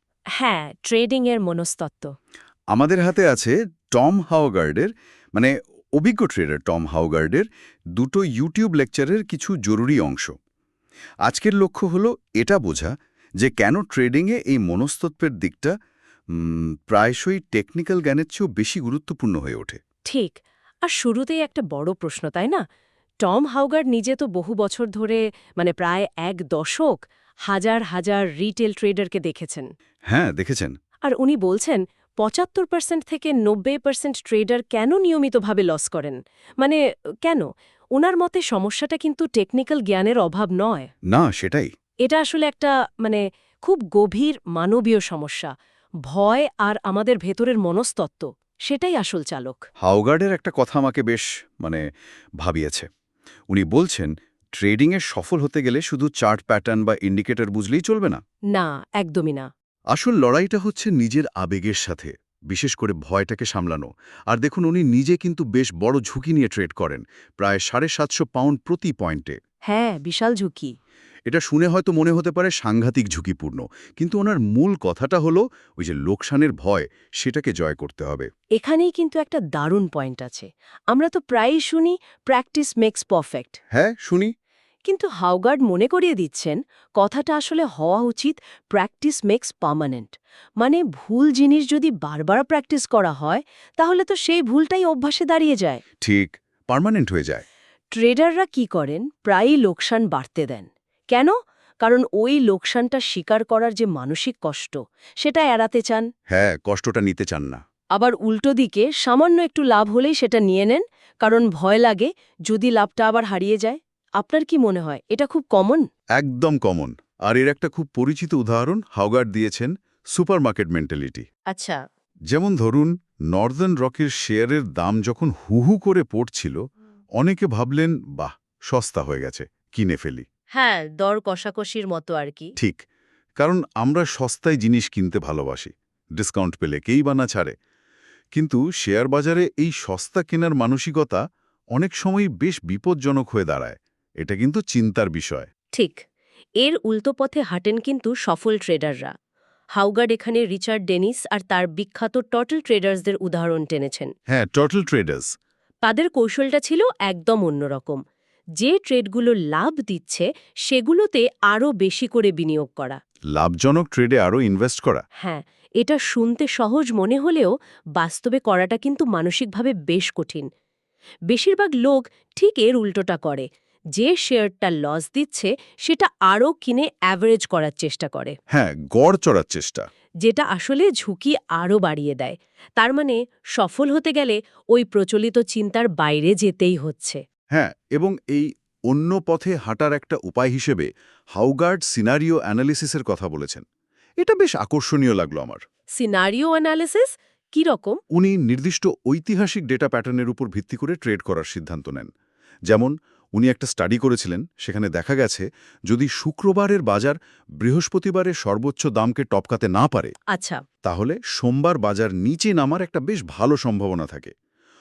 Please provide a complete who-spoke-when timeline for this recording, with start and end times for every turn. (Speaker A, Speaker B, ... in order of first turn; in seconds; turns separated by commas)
Speaker A: 0.4-2.1, Speaker B: 2.7-10.3, Speaker B: 11.2-15.7, Speaker B: 16.3-19.8, Speaker A: 20.1-22.6, Speaker A: 23.2-29.7, Speaker B: 30.1-30.8, Speaker A: 31.0-40.9, Speaker B: 41.1-41.7, Speaker A: 42.0-45.5, Speaker A: 46.1-49.6, Speaker B: 49.8-51.8, Speaker B: 52.4-52.9, Speaker B: 53.5-58.2, Speaker A: 58.5-59.5, Speaker B: 59.9-69.4, Speaker A: 69.7-70.7, Speaker B: 71.3-78.3, Speaker A: 78.6-83.6, Speaker B: 83.7-84.3, Speaker A: 84.9-95.8, Speaker B: 96.0-97.5, Speaker A: 97.9-106.1, Speaker B: 106.3-107.6, Speaker A: 107.9-115.8, Speaker B: 116.2-121.3, Speaker A: 121.5-121.8, Speaker B: 122.3-126.6, Speaker B: 127.2-130.2, Speaker A: 130.6-132.5, Speaker B: 132.6-132.8, Speaker B: 133.4-137.6, Speaker B: 138.3-141.2, Speaker B: 141.8-145.5, Speaker A: 145.7-146.0, Speaker A: 146.6-149.1, Speaker A: 149.8-154.1, Speaker B: 154.3-155.3, Speaker A: 155.8-158.0, Speaker A: 158.6-163.0, Speaker B: 163.3-165.0, Speaker A: 165.2-170.5, Speaker A: 171.3-178.3, Speaker B: 178.5-179.9, Speaker A: 180.2-187.2, Speaker B: 187.5-193.6, Speaker B: 194.2-195.6, Speaker A: 196.0-198.0, Speaker B: 198.1-202.1, Speaker B: 202.7-210.1, Speaker A: 210.3-210.6, Speaker B: 210.8-214.3